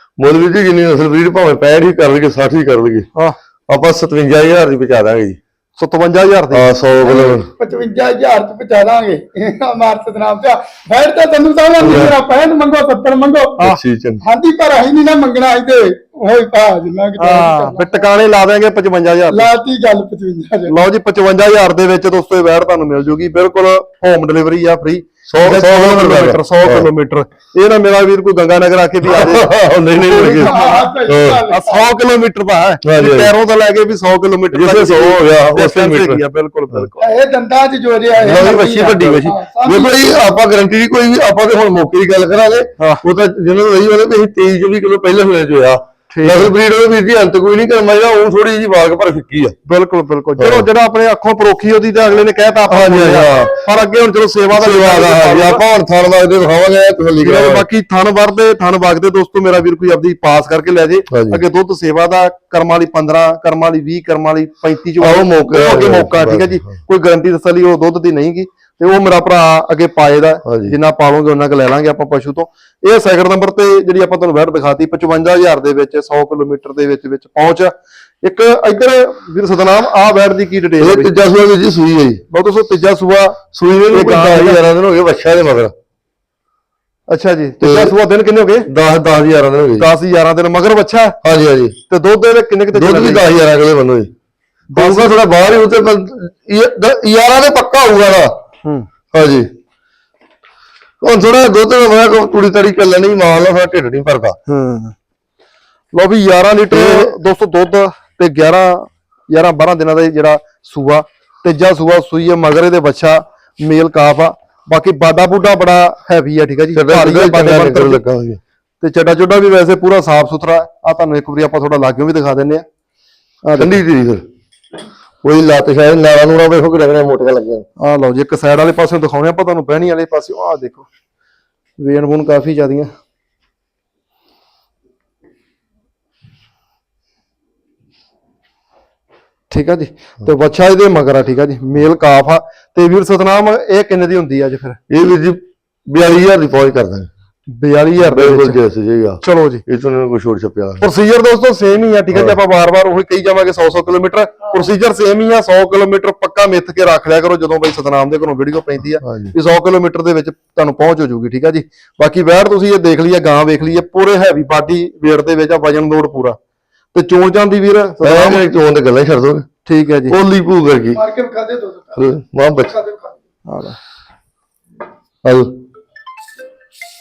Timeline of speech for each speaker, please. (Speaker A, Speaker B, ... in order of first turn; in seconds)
Speaker A: 0.2-3.1, 3.7-5.4, 6.5-7.5, 11.8-12.1, 13.6-14.2, 25.3-26.9, 29.0-31.4, 32.8-33.3, 34.5-36.2, 38.2-49.5, 50.4-50.7, 52.7-53.6, 54.5-57.6, 61.1-61.4, 65.0-66.7, 70.4-70.7, 80.8-82.2, 83.5-85.7, 87.6-87.9, 88.7-89.8, 91.2-91.8, 92.7-94.1, 94.7-98.3, 99.1-99.5, 101.0-104.3, 106.7-107.1, 116.7-118.4, 123.6-124.2, 125.2-127.7, 144.9-147.1, 148.0-150.9, 152.1-152.4, 159.0-159.3, 168.0-169.5, 170.1-171.0, 171.9-172.7, 175.2-175.5
Speaker B: 5.8-6.7, 17.2-19.5, 20.7-30.9, 31.5-37.1, 42.8-43.0, 46.1-46.5, 49.6-55.6, 57.2-81.1, 82.3-83.4, 83.9-84.6, 87.1-88.7, 89.8-91.2, 91.9-93.3, 94.7-95.2, 104.5-104.9, 105.9-118.0, 118.8-122.6, 123.4-123.8, 127.8-130.9, 131.8-132.9, 139.5-144.8, 147.5-148.6, 149.2-149.6, 150.8-166.4, 166.9-168.4, 169.6-170.2, 173.5-173.8
Speaker C: 7.0-13.6, 14.2-18.0, 19.3-20.7, 30.1-31.9, 37.0-40.1, 170.8-172.1, 172.6-173.2